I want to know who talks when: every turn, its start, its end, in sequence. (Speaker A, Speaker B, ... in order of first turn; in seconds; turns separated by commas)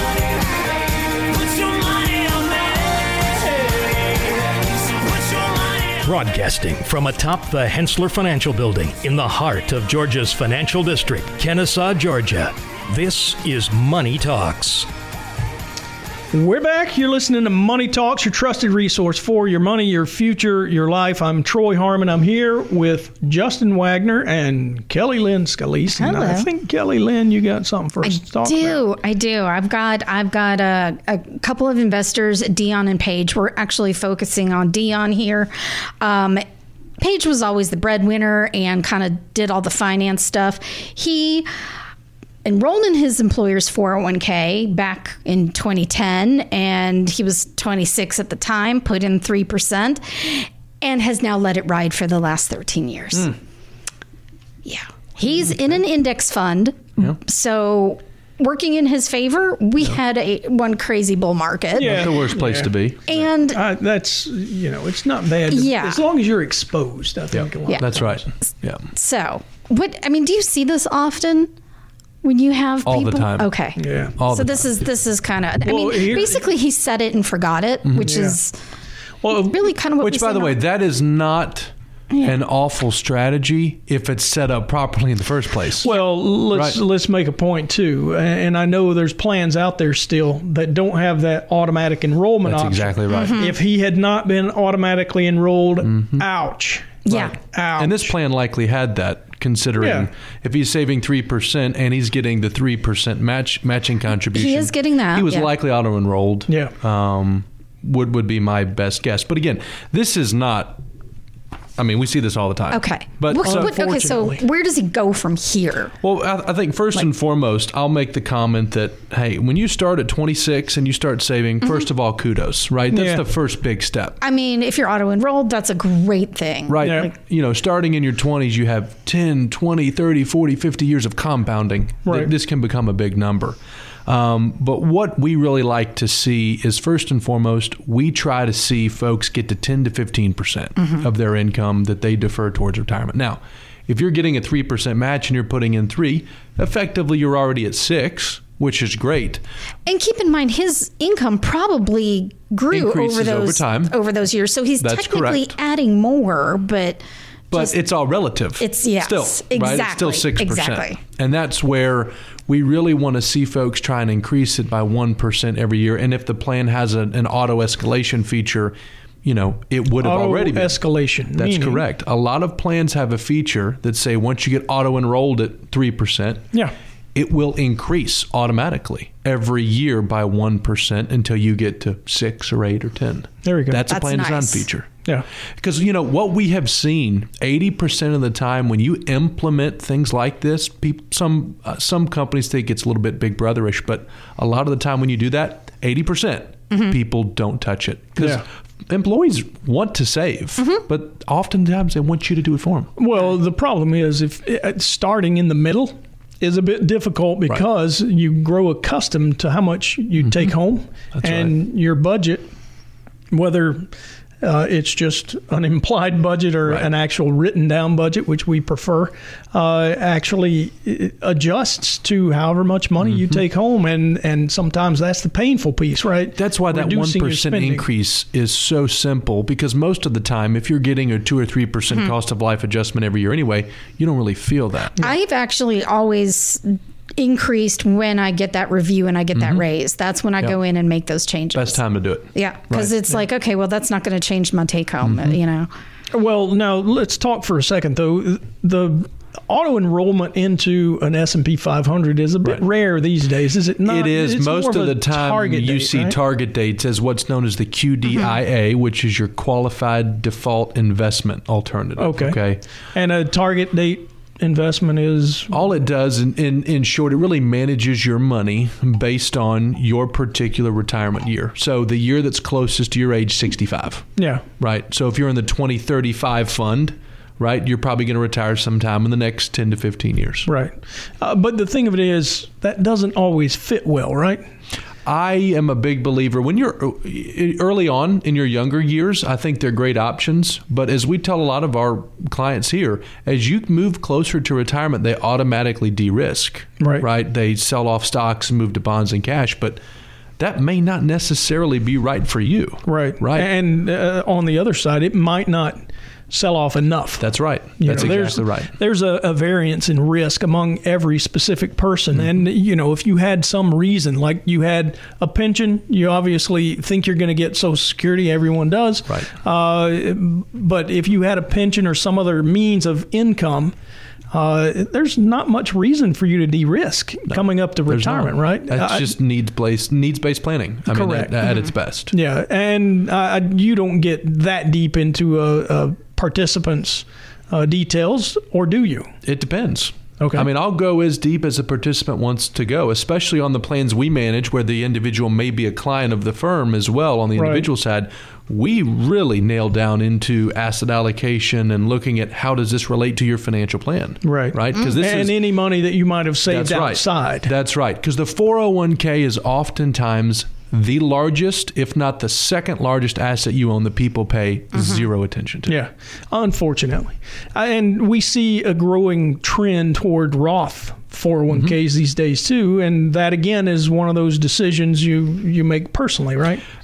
Speaker A: 1.6-2.6, Speaker A: 5.2-14.9, Speaker B: 16.3-28.8, Speaker C: 25.9-26.5, Speaker C: 28.0-36.4, Speaker C: 37.0-41.5, Speaker C: 42.4-53.3, Speaker C: 54.6-62.1, Speaker D: 61.8-63.3, Speaker B: 61.8-62.7, Speaker C: 63.0-63.6, Speaker B: 63.5-68.2, Speaker C: 65.5-66.0, Speaker D: 67.3-68.8, Speaker C: 68.4-71.5, Speaker C: 72.2-78.5, Speaker D: 72.8-73.5, Speaker B: 73.8-74.2, Speaker D: 74.2-74.9, Speaker B: 75.6-76.4, Speaker D: 77.8-78.1, Speaker B: 78.0-78.4, Speaker B: 79.2-79.6, Speaker C: 79.3-80.6, Speaker D: 80.0-85.9, Speaker C: 82.1-82.4, Speaker B: 85.8-98.1, Speaker D: 86.5-86.8, Speaker D: 92.4-93.4, Speaker C: 93.1-93.5, Speaker D: 95.9-96.2, Speaker C: 97.0-97.3, Speaker D: 97.8-110.8, Speaker B: 99.8-100.1, Speaker C: 104.3-105.5, Speaker B: 106.5-106.7, Speaker D: 111.8-113.7, Speaker C: 112.7-115.9, Speaker B: 113.4-114.4, Speaker D: 116.0-124.2, Speaker B: 122.9-123.2, Speaker C: 124.2-127.1, Speaker D: 126.7-149.4, Speaker B: 126.8-127.1, Speaker B: 132.0-132.3, Speaker C: 149.8-157.7, Speaker D: 152.7-153.9, Speaker D: 154.8-155.5, Speaker D: 157.5-170.8, Speaker C: 158.6-161.0, Speaker B: 170.0-171.8, Speaker D: 171.3-176.4, Speaker D: 177.1-184.9, Speaker B: 183.4-183.8, Speaker C: 183.9-184.7, Speaker D: 185.6-202.9, Speaker B: 198.2-198.4, Speaker B: 203.0-212.5, Speaker D: 210.2-210.5, Speaker D: 211.1-211.5, Speaker B: 213.3-213.9, Speaker B: 214.4-227.8, Speaker D: 223.0-223.4, Speaker D: 226.3-235.1, Speaker C: 235.0-245.7, Speaker D: 239.3-239.6, Speaker D: 241.5-242.9, Speaker D: 245.0-245.4, Speaker B: 246.1-256.2, Speaker D: 253.8-262.6, Speaker B: 262.0-262.4, Speaker B: 262.9-265.6, Speaker D: 265.5-274.1, Speaker B: 274.2-274.4, Speaker D: 274.6-280.5, Speaker B: 280.4-284.4, Speaker D: 285.0-299.8, Speaker B: 296.8-297.1, Speaker D: 300.4-303.5, Speaker B: 302.9-323.7, Speaker D: 307.2-308.7, Speaker B: 324.3-329.1, Speaker D: 327.3-332.1, Speaker B: 330.9-331.3, Speaker B: 332.1-339.1, Speaker D: 339.2-355.4, Speaker B: 340.2-340.5, Speaker B: 347.3-347.6, Speaker B: 354.2-357.5, Speaker D: 356.5-365.8, Speaker C: 364.7-365.0, Speaker B: 365.7-376.6